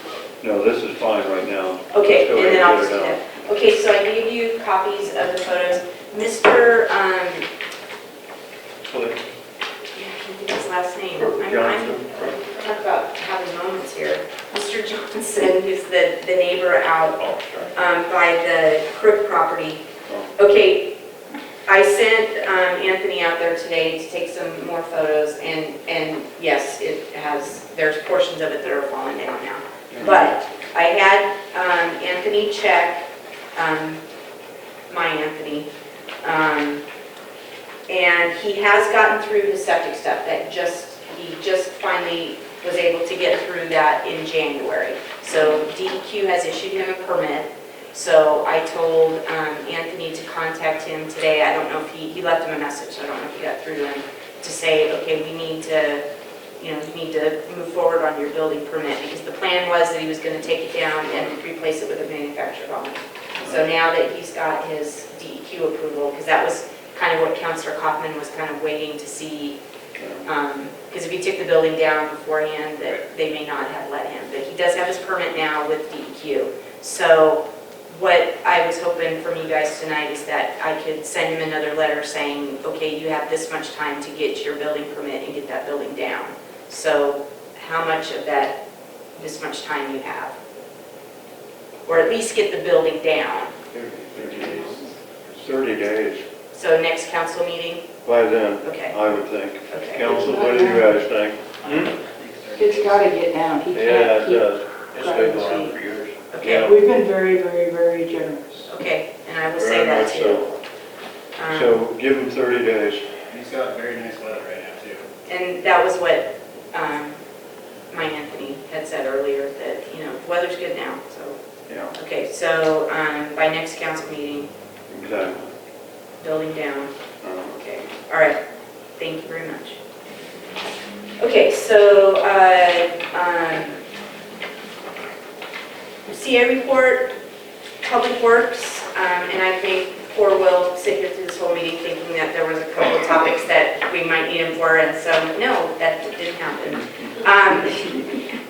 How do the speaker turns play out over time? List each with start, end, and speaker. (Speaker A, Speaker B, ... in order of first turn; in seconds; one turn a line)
Speaker A: 0.4-3.2
Speaker B: 1.9-7.5
Speaker A: 8.9-9.2
Speaker B: 9.9-19.8
Speaker A: 11.2-12.4
Speaker A: 17.2-17.7
Speaker A: 20.1-20.3
Speaker B: 20.4-20.9
Speaker B: 21.7-34.0
Speaker A: 29.9-30.3
Speaker B: 34.9-35.7
Speaker B: 36.2-36.8
Speaker B: 37.9-56.0
Speaker B: 56.6-69.6
Speaker A: 63.4-63.6
Speaker A: 70.0-70.3
Speaker B: 70.2-88.6
Speaker B: 89.2-90.3
Speaker B: 91.8-93.5
Speaker A: 93.7-96.2
Speaker B: 96.5-97.9
Speaker A: 98.0-101.9
Speaker B: 98.6-99.0
Speaker B: 99.7-100.3
Speaker C: 100.0-100.9
Speaker D: 101.6-103.1
Speaker C: 102.6-105.7
Speaker A: 103.7-106.8
Speaker B: 106.3-106.7
Speaker C: 106.6-108.7
Speaker B: 108.7-110.5
Speaker A: 109.5-110.5
Speaker B: 111.3-111.7
Speaker A: 111.5-113.1
Speaker D: 113.3-115.0
Speaker B: 115.3-117.2
Speaker B: 117.9-121.4
Speaker A: 121.7-121.9
Speaker B: 121.9-124.5
Speaker A: 124.9-125.5
Speaker B: 126.2-126.9
Speaker A: 127.2-127.6
Speaker B: 127.5-128.4
Speaker B: 129.0-129.8
Speaker B: 131.2-133.8
Speaker B: 136.1-137.1
Speaker B: 137.8-148.2